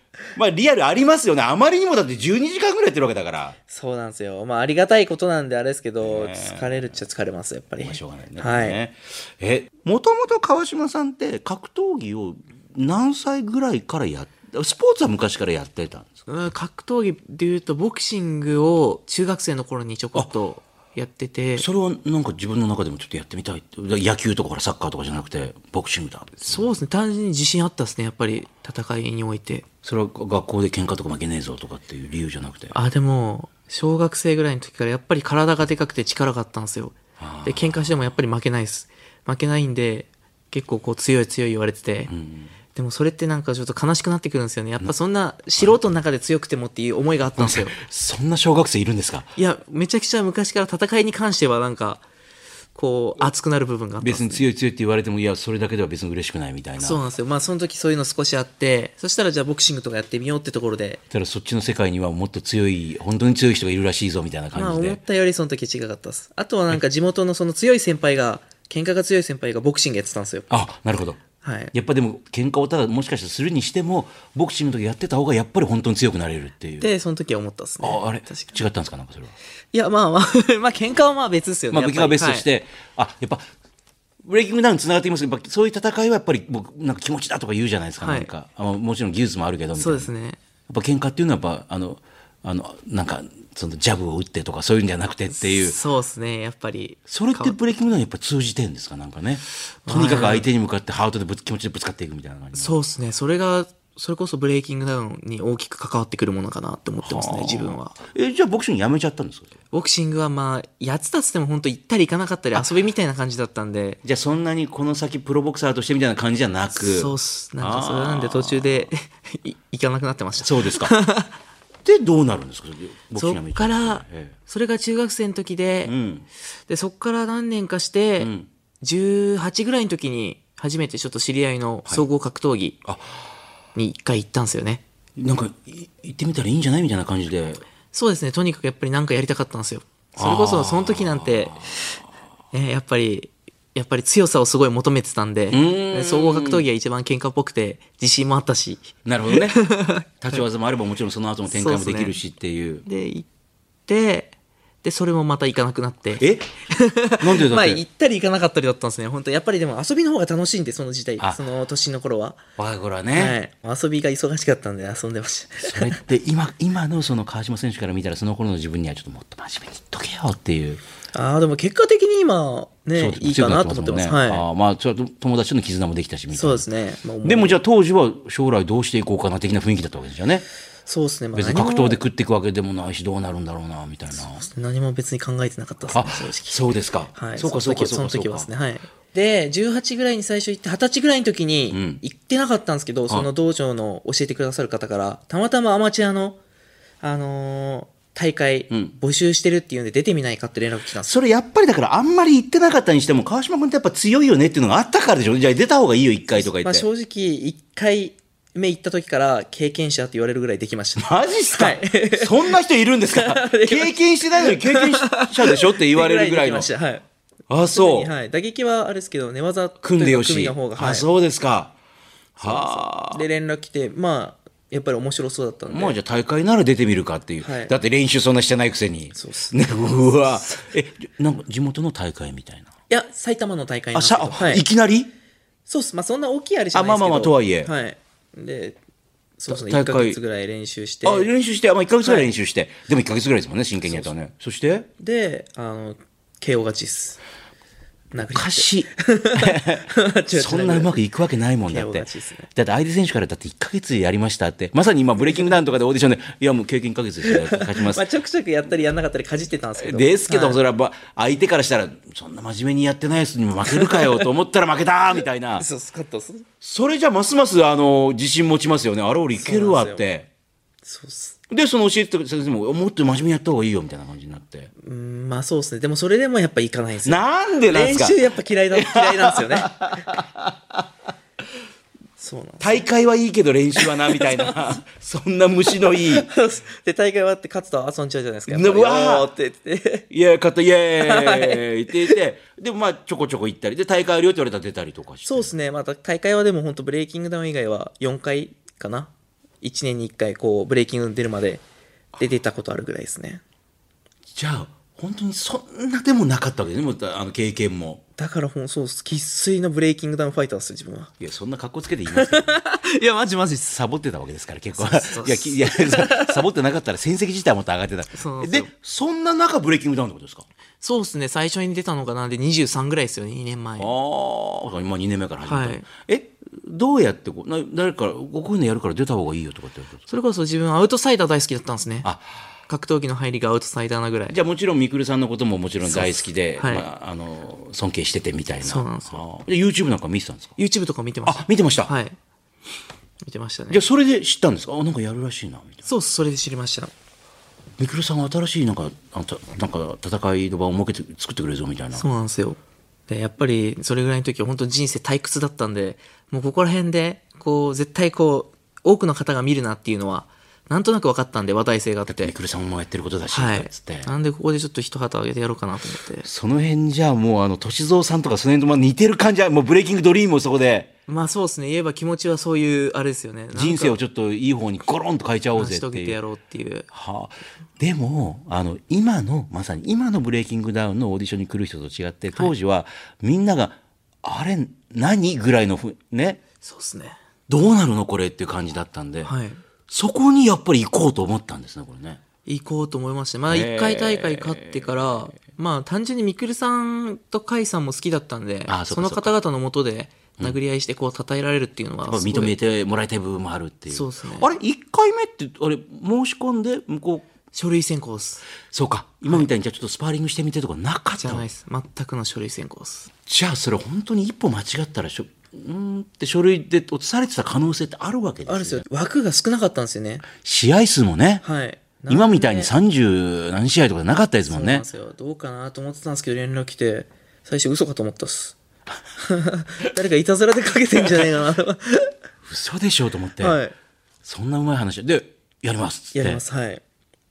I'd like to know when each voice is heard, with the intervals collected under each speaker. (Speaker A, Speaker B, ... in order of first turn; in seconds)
Speaker A: 0.3-3.6, 6.0-6.7, 7.8-16.2, 21.6-26.7, 29.8-32.7, 37.2-37.9, 42.1-42.5, 47.4-49.3, 54.0-57.0, 61.1-65.0, 70.5-71.2, 71.7-76.9, 77.8-79.3, 81.7-83.5, 84.2-90.1, 90.7-95.8, 97.1-102.8, 107.0-109.5, 114.0-118.9, 120.4-120.9, 121.8-124.3, 125.8-126.3, 128.2-128.5, 132.8-133.2, 135.2-137.6, 140.2-141.7, 145.5-146.6, 149.0-149.6, 150.2-152.8, 156.2-156.5, 157.2-157.8, 162.6-163.4, 165.6-170.8, 173.0-176.7, 177.2-180.4, 181.3-184.4, 185.9-188.5, 191.7-192.0, 201.0-206.8, 211.0-216.7, 217.5-218.1, 219.8-221.7, 222.4-223.2, 225.7-232.7, 233.9-235.1, 236.7-237.7, 239.5-240.2, 241.0-244.9, 248.2-258.0, 259.8-265.6, 266.6-270.3, 271.5-274.7, 277.0-280.9, 282.6-286.3, 288.5-289.3, 290.1-295.5, 304.3-308.0, 311.2-312.6, 313.7-320.4, 323.8-330.0, 334.3-340.5, 341.2-341.9, 343.7-345.8, 347.8-352.1, 362.1-364.1, 366.2-370.9, 373.5-376.2, 376.9-386.4, 387.5-389.3, 389.9-392.2, 393.5-395.2, 398.7-399.3, 402.1-407.3, 408.7-411.4, 413.3-418.8, 420.3-421.4, 422.1-424.8, 432.4-433.6, 434.2-436.4
Speaker B: 3.7-8.8, 16.3-21.7, 26.4-29.6, 32.7-42.1, 42.7-47.8, 49.4-52.0, 52.7-54.4, 56.8-61.0, 64.5-70.5, 71.4-71.7, 76.8-78.6, 79.7-82.5, 88.0-88.3, 89.8-90.4, 95.3-97.6, 99.8-100.5, 102.5-108.0, 109.7-114.0, 116.7-121.3, 123.2-125.9, 126.7-128.3, 128.8-132.8, 133.8-134.8, 137.9-141.9, 142.5-150.1, 151.5-152.2, 152.8-153.3, 153.9-154.3, 154.8-162.4, 163.1-166.0, 171.1-174.4, 176.3-177.6, 180.8-182.0, 184.4-186.6, 187.1-196.4, 197.0-201.1, 206.3-212.6, 213.1-217.0, 217.6-221.1, 222.4-225.9, 227.4-227.7, 229.1-229.6, 232.9-234.6, 235.7-238.8, 239.4-241.3, 242.0-242.3, 245.0-247.2, 248.1-250.9, 251.7-252.5, 255.2-255.6, 257.2-260.6, 263.7-264.3, 265.6-266.4, 269.3-270.0, 270.8-271.4, 274.8-279.8, 282.2-282.8, 283.8-284.8, 285.9-290.1, 291.0-292.2, 295.2-301.6, 302.2-303.4, 308.2-311.1, 312.1-313.8, 314.8-316.4, 318.1-318.7, 320.8-323.9, 325.4-325.9, 330.1-332.1, 332.7-334.4, 335.8-336.9, 338.6-339.2, 340.6-342.2, 343.3-343.8, 345.8-346.9, 351.9-362.3, 363.3-366.3, 371.1-374.0, 375.6-376.9, 386.6-387.2, 389.2-389.6, 392.4-402.5, 403.9-404.5, 407.5-408.4, 411.2-413.1, 418.5-420.3, 421.4-422.7, 424.5-428.6, 429.2-432.1, 433.4-433.7, 436.1-436.8